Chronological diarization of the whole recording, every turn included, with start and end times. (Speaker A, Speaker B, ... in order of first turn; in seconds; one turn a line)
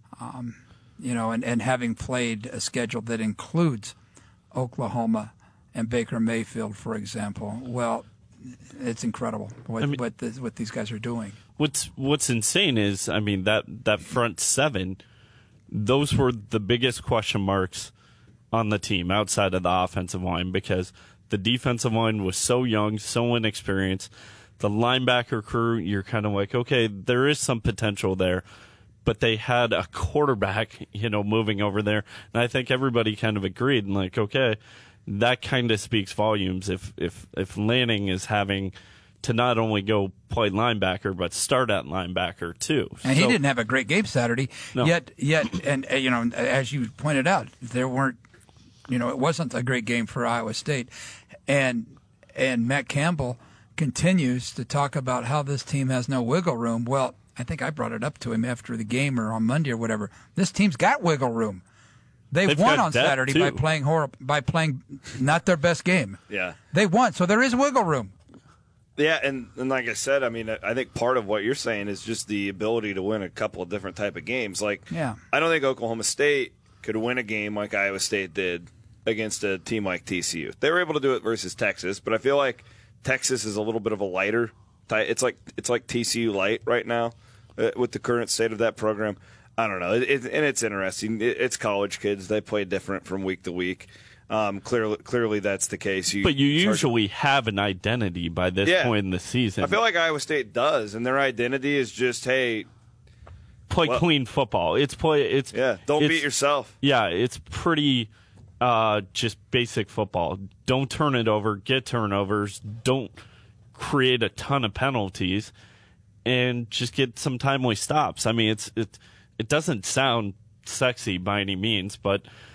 Speaker A: 0.2-4.0
Speaker A: 4.5-8.1
Speaker A: 8.7-11.4
Speaker B: 11.6-15.0
Speaker B: 15.7-17.9
Speaker B: 18.5-28.4
Speaker B: 29.1-43.4
Speaker A: 43.0-48.2
Speaker A: 48.9-50.9
Speaker A: 51.5-61.6
Speaker A: 62.3-66.2
Speaker B: 62.5-63.6
Speaker C: 66.3-66.6
Speaker A: 66.7-68.1
Speaker C: 69.0-96.9
Speaker A: 74.9-75.2
Speaker B: 96.2-99.8
Speaker C: 98.6-99.0
Speaker C: 99.6-102.7
Speaker B: 103.7-106.2
Speaker C: 105.5-106.7
Speaker B: 106.8-108.1
Speaker B: 108.6-113.1
Speaker B: 113.7-115.5
Speaker B: 116.2-122.2